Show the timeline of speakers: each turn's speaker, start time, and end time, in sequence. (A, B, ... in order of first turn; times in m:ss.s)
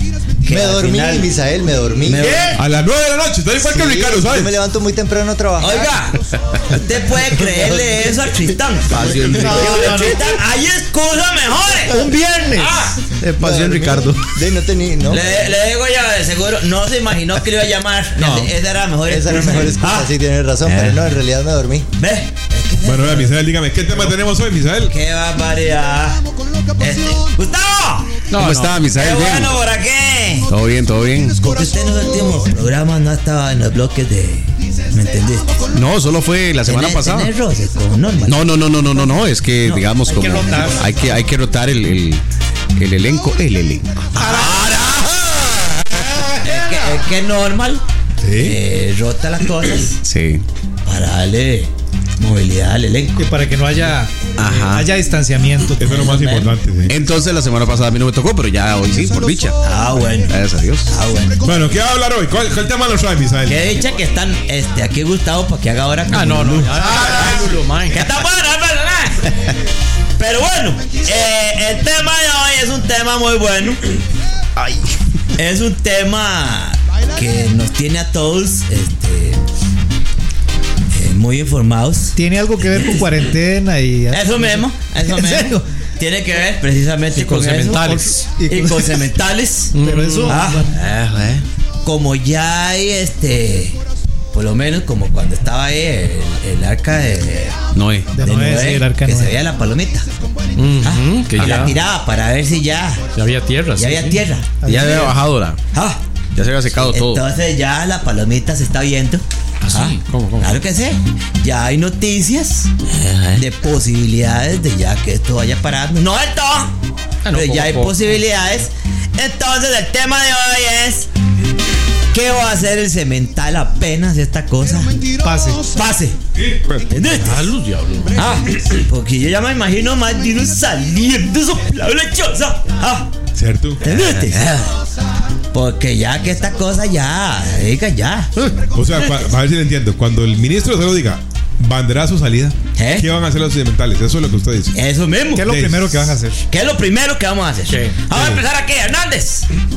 0:00.4-0:01.3 A
0:00.4-0:02.3 B
0:02.0-0:02.6 A
0:02.2-0:02.6 C
0:02.5-0:04.5 D
0:03.6-0:05.9 B
0:05.6-0:13.0 A
0:08.9-0:10.1 E
0:09.4-0:10.0 C
0:11.9-0:12.8 C
0:13.2-0:14.2 E
0:13.2-0:15.2 B
0:15.1-0:20.1 A
0:18.2-0:18.5 F
0:19.1-0:21.9 B
0:20.6-0:21.1 E
0:22.0-0:23.3 A
0:22.8-0:24.9 D
0:24.8-0:26.2 A
0:26.8-0:28.2 A
0:28.3-0:28.8 F
0:28.3-0:29.6 E
0:28.9-0:30.5 A
0:30.5-0:31.4 E
0:31.4-0:35.5 A
0:35.7-0:37.3 E
0:36.6-0:38.5 A
0:38.2-0:42.2 E
0:39.6-0:39.9 A
0:40.1-0:40.9 C
0:42.8-0:44.2 E
0:44.2-0:45.0 C
0:44.2-0:44.6 A
0:46.4-0:47.8 A
0:48.2-0:48.6 D
0:48.4-0:50.0 A
0:50.0-0:50.4 E
0:50.8-0:53.2 A
0:53.2-0:56.0 C
0:54.4-0:54.9 E
0:55.8-0:57.0 D
0:55.8-0:56.5 A
0:56.9-0:59.6 E
0:59.6-1:00.3 A
1:00.2-1:00.9 E
1:00.8-1:01.4 A
1:01.4-1:03.6 D
1:03.4-1:09.3 A
1:06.1-1:08.0 F
1:10.2-1:13.9 A
1:15.3-1:19.4 A
1:20.9-1:22.2 A
1:22.2-1:25.6 C
1:24.1-1:27.9 A
1:27.1-1:28.3 F
1:27.7-1:29.1 C
1:28.5-1:30.6 A
1:29.7-1:30.4 F
1:29.8-1:30.8 C
1:30.7-1:31.4 E
1:31.8-1:33.8 A
1:34.3-1:37.6 A
1:37.7-1:38.1 E
1:38.1-1:39.4 C
1:38.2-1:40.1 A
1:40.6-1:41.7 F
1:40.8-1:43.0 A
1:41.4-1:41.7 E
1:43.2-1:44.2 F
1:43.8-1:44.6 A
1:44.6-1:45.1 C
1:44.6-1:45.6 E
1:45.7-1:46.0 A
1:46.3-1:47.2 E
1:46.7-1:52.7 A
1:49.6-1:50.6 F
1:52.9-1:53.4 E
1:53.3-1:56.7 A
1:57.2-1:58.1 F
1:57.3-2:01.1 A
2:02.1-2:04.9 A
2:05.2-2:05.6 C
2:05.7-2:06.2 A
2:06.4-2:07.0 D
2:06.9-2:07.4 A
2:07.0-2:08.2 F
2:08.1-2:13.1 A
2:13.3-2:13.8 D
2:13.8-2:14.6 A
2:15.5-2:18.3 A
2:18.7-2:24.7 D
2:22.8-2:23.1 A
2:24.7-2:25.5 A
2:25.3-2:26.4 C
2:25.5-2:26.2 D
2:26.5-2:29.4 A
2:27.7-2:27.9 F
2:28.1-2:28.4 D